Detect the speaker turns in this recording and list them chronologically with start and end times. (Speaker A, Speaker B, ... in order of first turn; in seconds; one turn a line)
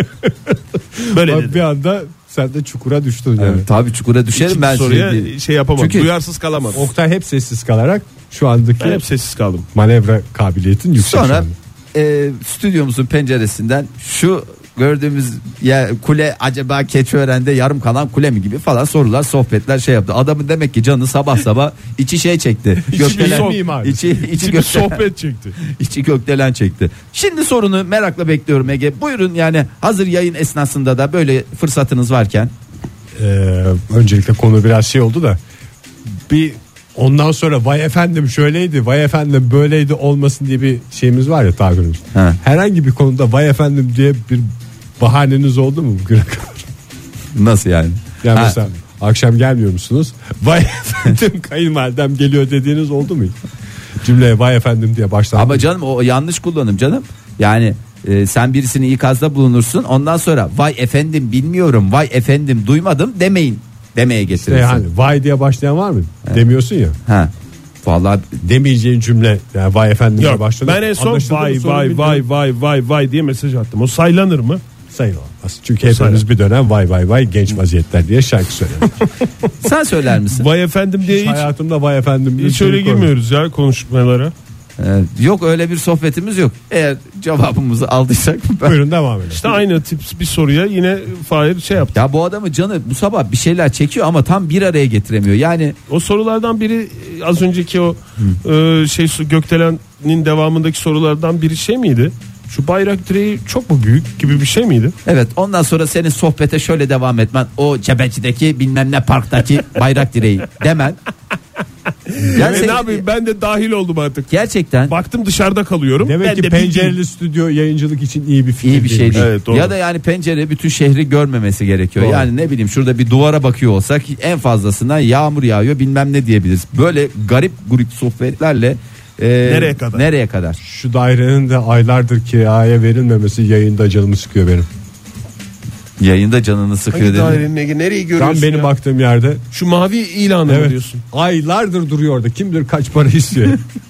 Speaker A: 0.2-3.7
Speaker B: 1.1-1.6
Speaker C: 3.4-6.1
Speaker B: 4.3-6.8
Speaker A: 6.7-9.0
Speaker B: 8.8-9.6
Speaker A: 9.7-11.5
Speaker C: 10.9-25.1
Speaker A: 22.9-24.1
Speaker B: 22.9-25.6
Speaker C: 25.6-32.5
Speaker A: 33.1-35.4
Speaker A: 36.3-46.7
Speaker C: 47.3-48.6
Speaker A: 48.2-53.4
Speaker A: 54.0-55.6
Speaker C: 55.3-64.8
Speaker A: 64.4-67.0
Speaker C: 67.0-67.3
Speaker C: 67.8-68.4
Speaker A: 68.4-72.2
Speaker B: 70.2-74.6
Speaker A: 74.9-79.1
Speaker B: 75.8-76.2
Speaker C: 79.6-80.5
Speaker B: 80.2-81.5
Speaker A: 81.0-83.1
Speaker B: 82.4-84.3
Speaker C: 84.8-88.8
Speaker A: 88.6-89.6
Speaker B: 89.3-91.9
Speaker C: 91.9-95.7
Speaker B: 95.9-104.9
Speaker C: 105.0-111.0
Speaker B: 112.1-114.3
Speaker C: 112.3-113.0
Speaker C: 114.3-114.9
Speaker B: 114.9-117.0
Speaker A: 116.0-119.3
Speaker C: 118.6-130.6
Speaker B: 119.1-119.7
Speaker A: 122.0-122.3
Speaker B: 129.4-130.0
Speaker A: 130.6-134.7
Speaker C: 136.0-137.4
Speaker B: 136.9-138.7
Speaker A: 138.2-139.4
Speaker B: 139.5-141.0
Speaker A: 140.5-143.6